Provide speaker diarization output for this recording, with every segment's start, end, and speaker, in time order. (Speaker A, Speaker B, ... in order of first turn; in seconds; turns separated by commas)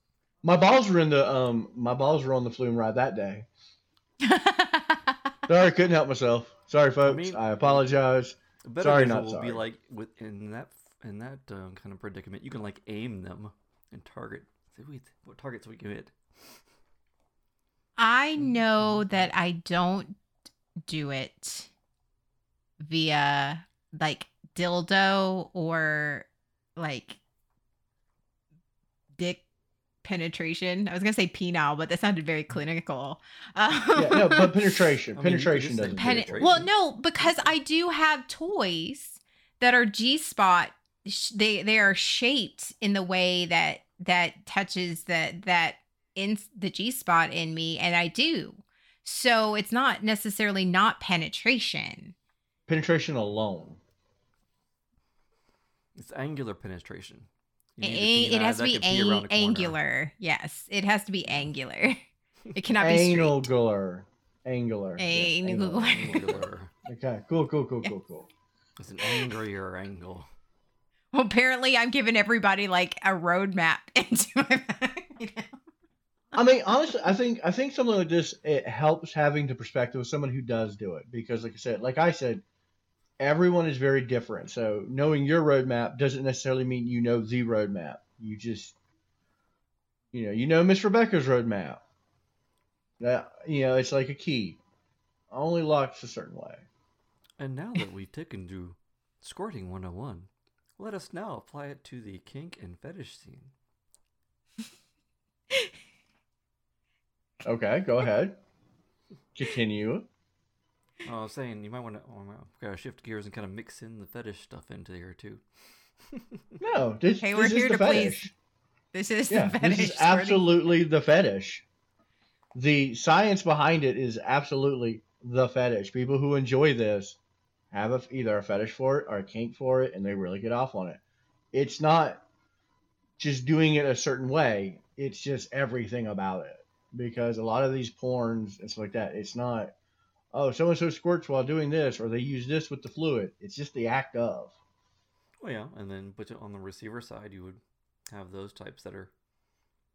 Speaker A: 0.4-3.5, Speaker B: 4.2-5.1, Speaker A: 5.5-9.6, Speaker C: 7.0-8.0, Speaker C: 8.6-16.6, Speaker B: 18.0-20.2, Speaker B: 20.9-21.7, Speaker B: 22.8-27.2, Speaker B: 29.2-29.4, Speaker B: 30.0-34.7, Speaker A: 34.0-36.7, Speaker C: 35.1-37.5, Speaker B: 35.9-52.1, Speaker A: 52.7-53.8, Speaker C: 55.9-59.8, Speaker B: 57.8-62.0, Speaker B: 62.5-63.5, Speaker A: 62.8-68.3, Speaker B: 65.0-66.4, Speaker C: 65.9-66.7, Speaker C: 68.8-70.3, Speaker B: 69.0-69.3, Speaker B: 71.1-75.5, Speaker A: 76.3-82.4, Speaker A: 83.2-88.8, Speaker A: 90.1-91.8, Speaker A: 93.0-94.6, Speaker A: 95.3-96.7, Speaker C: 97.4-103.5, Speaker A: 107.4-108.4, Speaker A: 109.3-110.1, Speaker C: 111.0-115.4, Speaker C: 116.0-116.4, Speaker A: 116.6-118.3, Speaker B: 117.2-118.3, Speaker B: 118.9-120.5, Speaker A: 119.3-121.6, Speaker A: 122.5-127.2, Speaker A: 127.7-131.0, Speaker A: 131.5-132.2, Speaker A: 133.2-139.7, Speaker A: 140.3-144.6, Speaker C: 145.4-149.1